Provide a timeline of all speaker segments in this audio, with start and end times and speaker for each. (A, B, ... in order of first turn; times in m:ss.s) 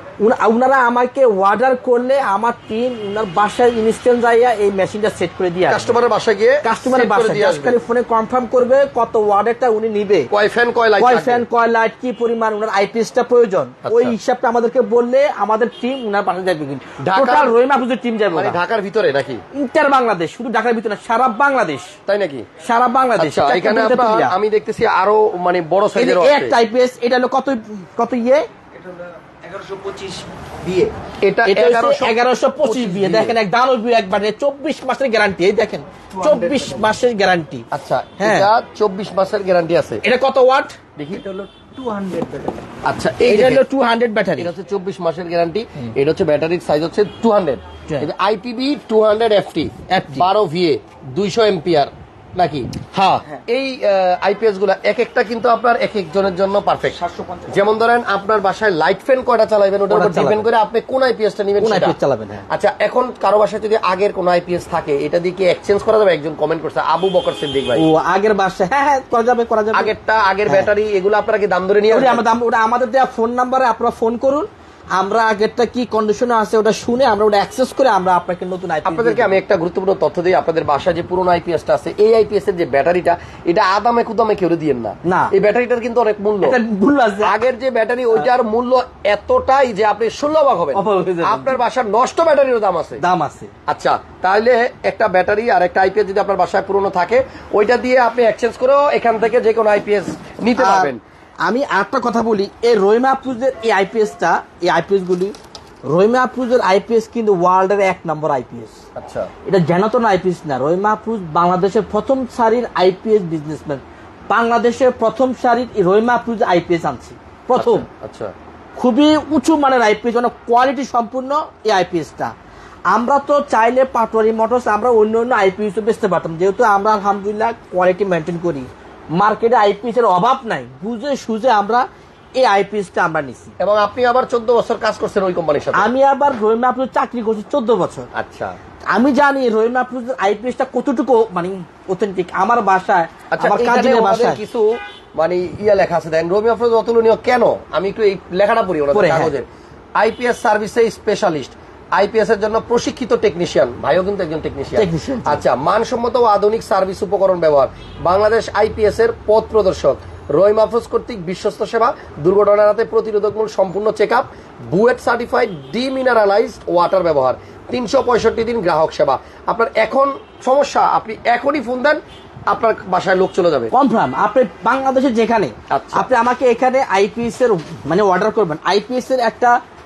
0:00.2-0:05.9 A
0:05.7-0:07.8 B
0:06.6-0:10.3 A
0:10.3-0:11.4 B
0:11.0-0:18.6 A
0:13.8-0:14.2 B
0:17.0-0:17.5 B
0:18.3-0:19.4 B
0:19.5-0:22.0 A
0:22.1-0:22.5 B
0:22.6-0:24.4 A
0:23.2-0:26.6 B
0:26.0-0:28.5 A
0:28.8-0:31.0 C
0:31.2-0:33.4 B
0:31.4-0:37.7 A
0:36.1-0:36.8 C
0:37.7-0:40.0 B
0:38.2-0:38.5 A
0:40.0-0:40.8 A
0:41.0-0:41.2 B
0:41.2-0:42.7 C
0:42.8-0:43.6 B
0:43.3-0:44.5 A
0:44.4-0:52.8 B
0:49.9-0:50.3 A
0:52.9-0:53.4 A
0:53.3-1:02.0 B
0:57.0-0:57.5 C
0:59.9-1:00.5 A
1:01.6-1:02.5 A
1:02.5-1:07.8 B
1:07.8-1:09.9 A
1:09.7-1:12.2 B
1:11.9-1:19.4 A
1:18.8-1:26.6 B
1:25.1-1:25.3 A
1:26.4-1:27.3 A
1:27.2-1:33.0 B
1:30.8-1:31.6 A
1:33.0-1:33.5 A
1:33.7-1:41.0 B
1:40.6-1:40.9 A
1:41.4-1:45.4 A
1:45.9-1:48.8 A
1:49.0-1:49.3 B
1:49.5-1:57.8 A
1:57.6-1:58.3 B
1:58.8-2:02.3 A
2:02.9-2:11.9 A
2:12.4-2:13.6 A
2:13.6-2:15.9 B
2:15.7-2:18.1 A
2:18.1-2:18.6 B
2:18.9-2:24.4 A
2:23.3-2:53.7 B
2:28.9-2:29.4 A
2:34.8-2:35.4 A
2:53.7-2:59.6 A
2:55.7-2:56.1 B